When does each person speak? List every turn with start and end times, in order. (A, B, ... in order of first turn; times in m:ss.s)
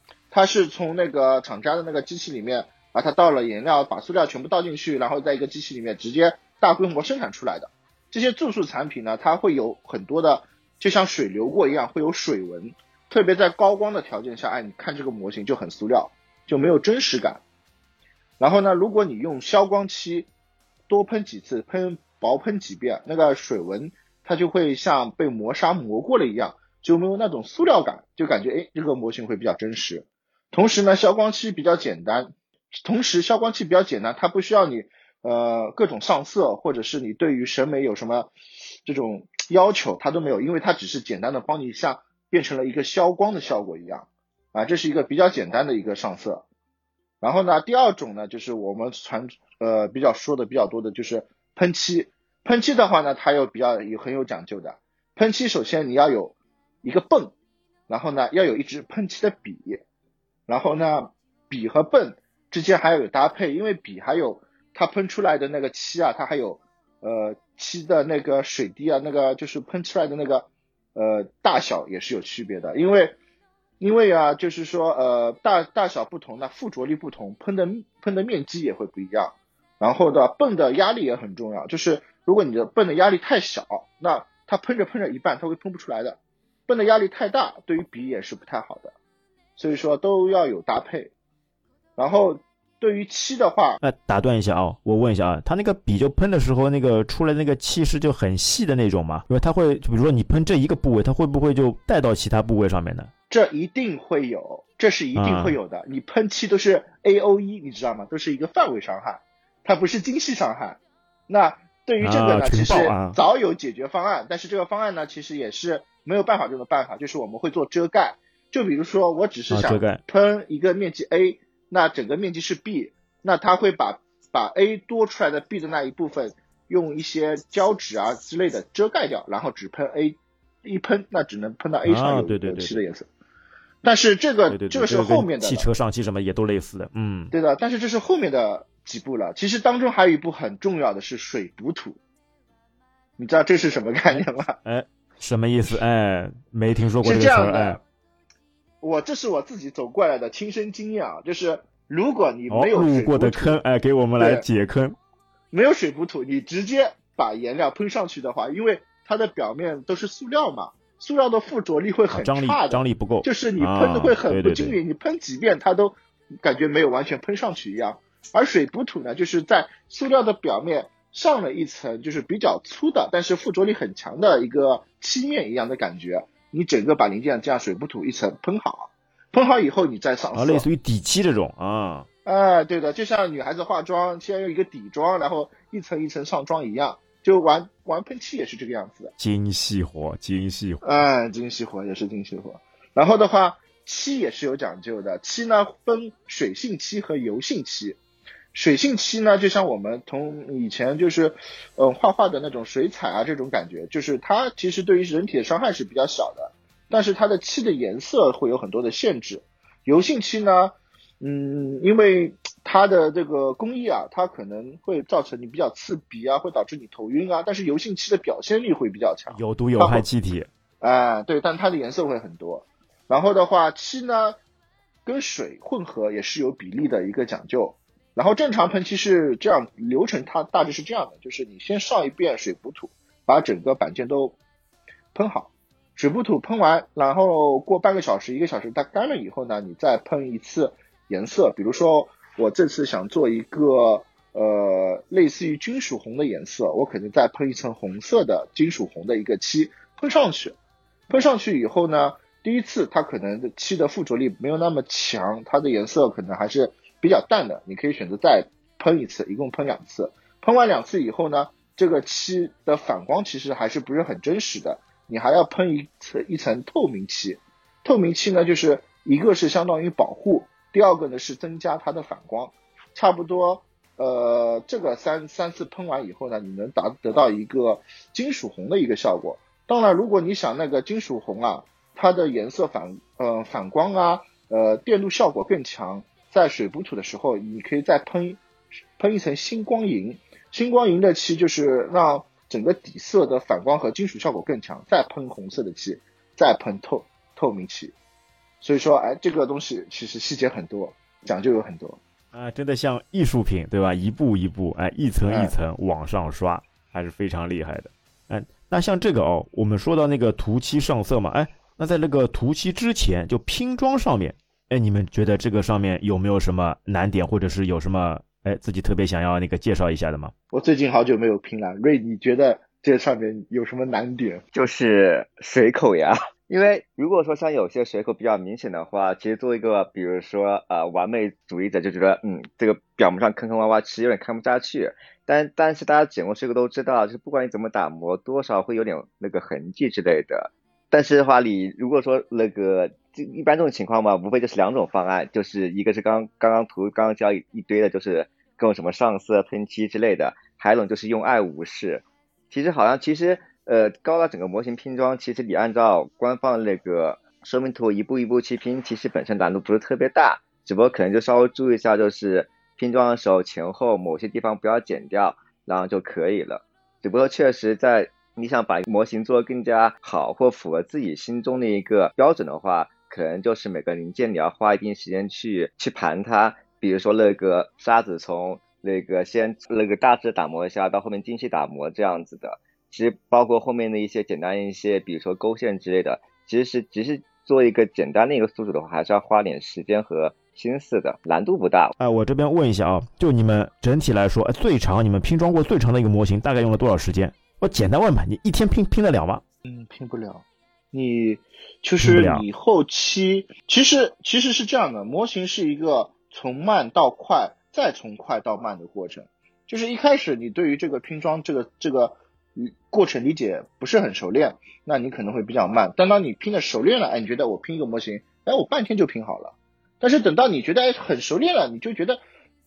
0:00.3-0:17.4 A
0:18.4-0:20.3 A
0:20.9-0:38.3 A
0:38.8-0:46.4 A
0:47.2-0:57.3 A
0:57.9-0:59.8 A
1:00.5-1:13.2 A
1:13.8-1:28.9 A
1:29.6-1:31.1 A
1:32.0-1:33.8 A
1:33.8-1:43.1 B
1:43.3-2:13.1 A
1:45.2-1:45.6 B
1:52.0-1:53.2 B
1:59.5-2:00.0 B
2:11.9-2:12.8 B
2:13.8-2:15.7 A
2:14.5-2:17.3 B
2:17.3-2:22.0 A
2:23.2-2:24.6 A
2:24.1-2:27.8 B
2:27.0-2:27.8 A
2:28.8-2:33.6 A
2:32.5-2:35.0 B
2:34.2-2:34.5 A
2:35.5-3:00.7 A
2:42.1-2:44.8 B
3:00.3-3:02.1 B
3:02.2-3:09.1 A
3:09.2-3:11.0 B
3:10.8-3:18.0 A
3:18.5-3:40.0 A
3:39.3-3:40.5 B
3:40.8-3:44.4 A
3:45.1-3:54.4 A
3:55.1-4:10.6 A
4:11.1-4:48.4 A
4:49.0-4:57.9 A
4:58.6-5:02.0 A
5:02.3-5:20.3 B
5:05.2-5:05.5 A
5:20.5-5:24.4 A
5:24.5-6:31.9 C
6:32.0-6:39.4 B
6:39.7-7:02.2 A
6:42.0-6:42.4 B